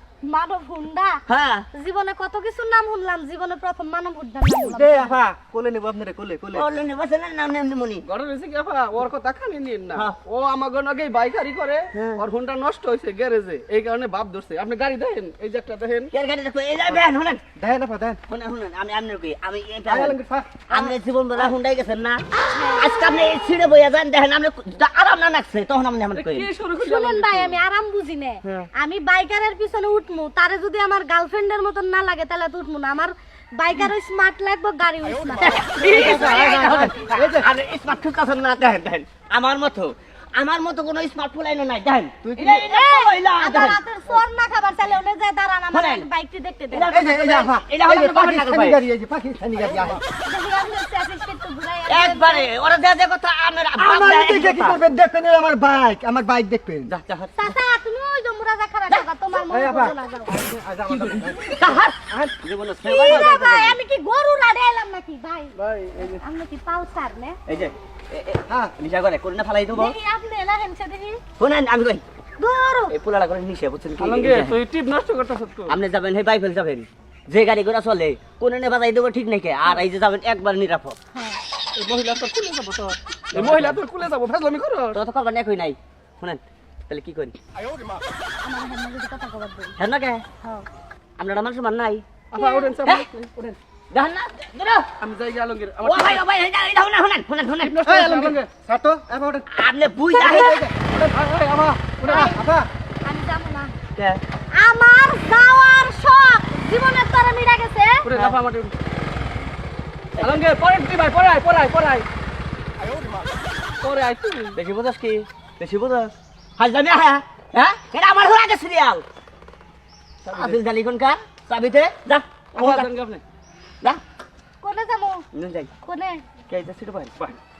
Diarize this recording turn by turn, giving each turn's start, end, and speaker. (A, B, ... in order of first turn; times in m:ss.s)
0:00.2-0:01.2 A
0:01.3-0:01.7 B
0:01.7-0:05.1 A
0:04.6-0:06.7 C
0:06.5-0:08.0 B
0:08.0-0:16.1 D
0:11.9-0:12.2 B
0:16.1-0:17.4 B
0:17.6-0:18.2 C
0:18.3-0:20.2 B
0:19.9-0:20.8 C
0:20.7-0:26.5 B
0:22.5-0:23.3 A
0:26.1-0:27.6 D
0:26.8-0:36.6 A
0:35.4-0:43.8 B
0:35.8-0:37.5 C
0:42.2-0:42.6 C
0:42.5-0:46.9 A
0:45.7-0:46.1 B
0:46.7-0:48.8 B
0:46.9-0:50.0 C
0:50.2-0:52.5 A
0:51.9-0:54.8 B
0:53.8-0:56.9 C
0:56.9-0:57.6 B
0:57.4-1:00.4 A
0:58.9-0:59.4 B
0:59.5-1:02.3 C
1:00.9-1:01.2 D
1:01.2-1:03.8 B
1:02.8-1:07.4 A
1:03.0-1:03.3 C
1:05.6-1:06.2 D
1:07.5-1:09.9 B
1:09.7-1:11.2 A
1:11.4-1:12.0 B
1:12.4-1:12.9 A
1:12.9-1:14.6 B
1:14.0-1:15.7 D
1:15.7-1:21.0 B
1:21.8-1:25.0 D
1:23.4-1:23.7 B
1:24.9-1:27.3 B
1:28.4-1:29.7 A
1:29.8-1:30.2 B
1:31.2-1:32.0 B
1:32.3-1:33.3 D
1:32.4-1:32.7 A
1:33.9-1:34.9 B
1:35.0-1:36.2 D
1:35.8-1:37.8 B
1:37.6-1:38.4 D
1:37.8-1:39.5 C
1:39.5-1:40.6 B
1:40.1-1:40.6 A
1:40.2-1:41.1 C
1:41.0-1:42.3 D
1:41.9-1:42.7 C
1:42.1-1:42.4 A
1:43.0-1:43.7 A
1:44.0-1:44.2 B
1:44.5-1:48.1 A
1:48.0-1:48.7 D
1:50.2-1:52.0 D
1:53.8-1:54.6 D
1:54.5-1:59.0 B
2:00.2-2:00.6 D
2:00.3-2:02.9 B
2:02.5-2:03.2 D
2:04.6-2:05.2 A
2:05.3-2:05.7 B
2:05.8-2:06.4 A
2:06.4-2:07.2 B